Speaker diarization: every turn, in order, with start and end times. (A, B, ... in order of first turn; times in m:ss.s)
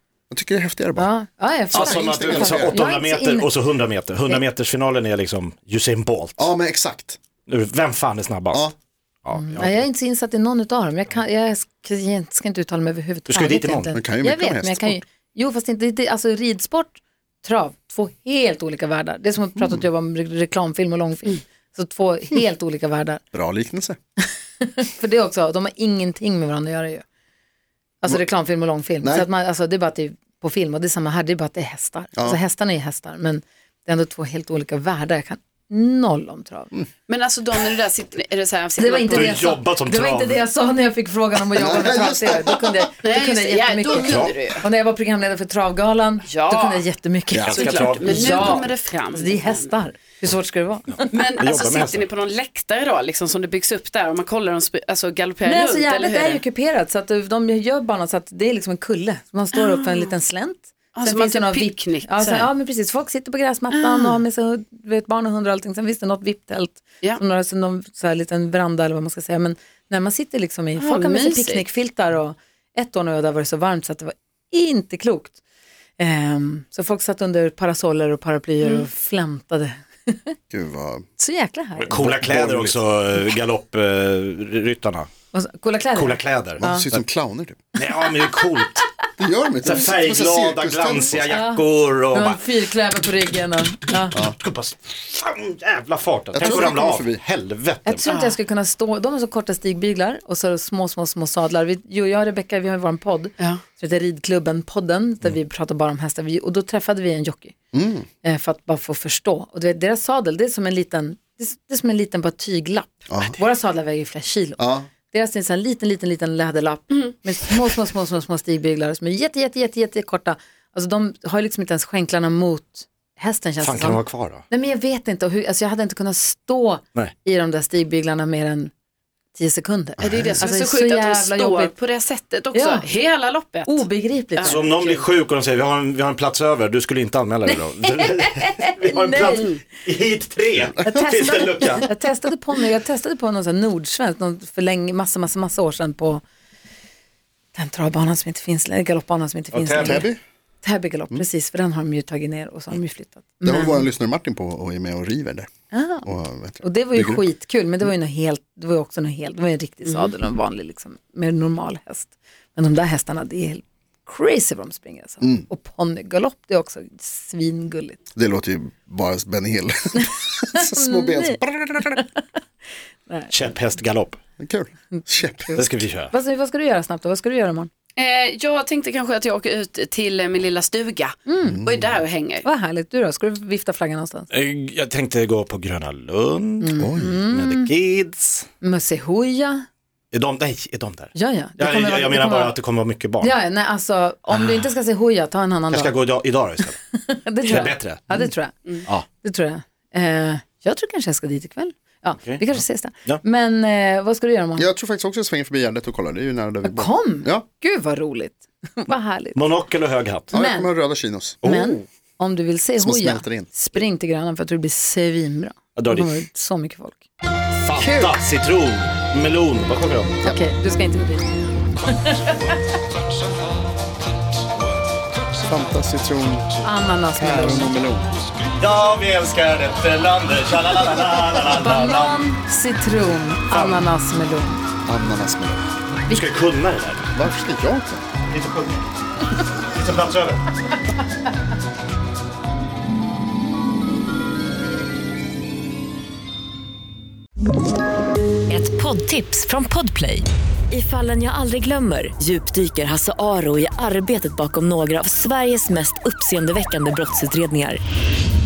0:00.3-0:01.1 A
0:01.0-0:03.5 B
0:01.7-0:02.8 A
0:01.7-0:06.5 C
0:06.4-0:07.2 A
0:07.5-0:08.7 C
0:09.2-0:09.8 C
0:09.3-0:23.2 B
0:13.3-0:14.0 C
0:13.9-0:15.0 A
0:23.3-0:24.0 A
0:24.6-0:27.0 B
0:28.0-0:36.7 B
0:29.0-0:29.3 A
0:37.1-0:39.6 D
0:38.8-0:51.2 B
0:39.1-0:40.4 C
0:41.6-0:42.9 A
0:43.0-0:44.6 D
0:44.0-0:44.4 C
0:46.3-0:46.8 D
0:47.3-0:48.7 C
0:47.5-0:49.7 D
0:51.1-0:56.4 D
0:51.4-0:52.0 C
0:55.4-1:15.4 B
0:59.5-1:00.1 D
1:01.0-1:02.5 D
1:03.7-1:04.2 D
1:10.8-1:11.6 D
1:16.0-1:20.3 B
1:20.5-1:21.0 A
1:21.2-1:22.0 B
1:21.8-1:25.1 C
1:21.9-1:22.8 A
1:25.3-1:26.9 B
1:25.9-1:27.0 C
1:26.6-1:27.6 A
1:27.8-1:28.8 C
1:29.2-1:31.2 A
1:29.6-1:32.4 C
1:31.3-1:34.2 B
1:34.1-1:38.0 C
1:36.3-1:37.2 A
1:36.5-1:36.7 B
1:37.8-1:47.5 B
1:38.0-1:38.4 D
1:47.7-1:48.1 A
1:48.2-2:08.7 B
1:53.1-1:53.4 A
1:54.6-1:54.9 A
2:03.6-2:04.4 C
2:09.3-2:11.7 B
2:10.0-2:15.0 D
2:12.5-2:12.9 B
2:13.6-2:14.7 B
2:14.4-2:21.9 C
2:17.5-2:19.5 B
2:19.3-2:19.6 D
2:20.8-2:26.2 B
2:27.5-2:30.1 B
2:29.5-2:30.1 C
2:29.8-2:30.2 A
2:30.6-2:33.9 B
2:33.4-2:35.5 A
2:35.7-2:48.0 B
2:36.0-2:37.2 A
2:48.1-2:52.0 A
2:50.6-2:52.1 B
2:53.1-2:53.3 B
2:53.3-2:54.2 C
2:54.4-2:55.5 A
2:54.9-2:57.7 B
2:55.6-2:56.1 C
2:58.0-3:02.4 D
3:01.3-3:01.6 B
3:01.4-3:02.0 A
3:02.4-3:04.3 B
3:04.3-3:06.7 C
3:06.6-3:07.7 B
3:06.8-3:07.2 A
3:07.3-3:08.5 C
3:08.6-3:09.6 B
3:10.1-3:13.3 C
3:11.1-3:12.6 B
3:13.2-3:15.9 B
3:14.3-3:14.7 C
3:15.7-3:16.8 C
3:16.9-3:18.6 B
3:17.4-3:18.3 C
3:19.2-3:24.7 B
3:22.2-3:23.2 C
3:24.6-3:27.4 A
3:26.6-3:29.4 B
3:29.3-3:30.3 C
3:30.3-3:30.7 B
3:30.3-3:31.4 A
3:31.4-3:31.8 C
3:31.4-3:37.1 B
3:32.8-3:33.5 A
3:35.8-3:36.1 C
3:37.6-3:40.2 C
3:37.8-3:38.2 B
3:40.2-3:41.3 B
3:41.9-3:42.5 B
3:45.5-3:46.5 A
3:46.6-3:47.7 B
3:47.2-3:48.2 A
3:48.6-3:52.2 C
3:51.4-3:54.6 B
3:53.5-3:53.8 C
3:54.8-3:55.7 A
3:56.1-3:57.1 C
3:57.1-3:58.0 A
3:58.3-3:58.8 C
3:59.7-4:00.4 C
4:08.5-4:17.8 E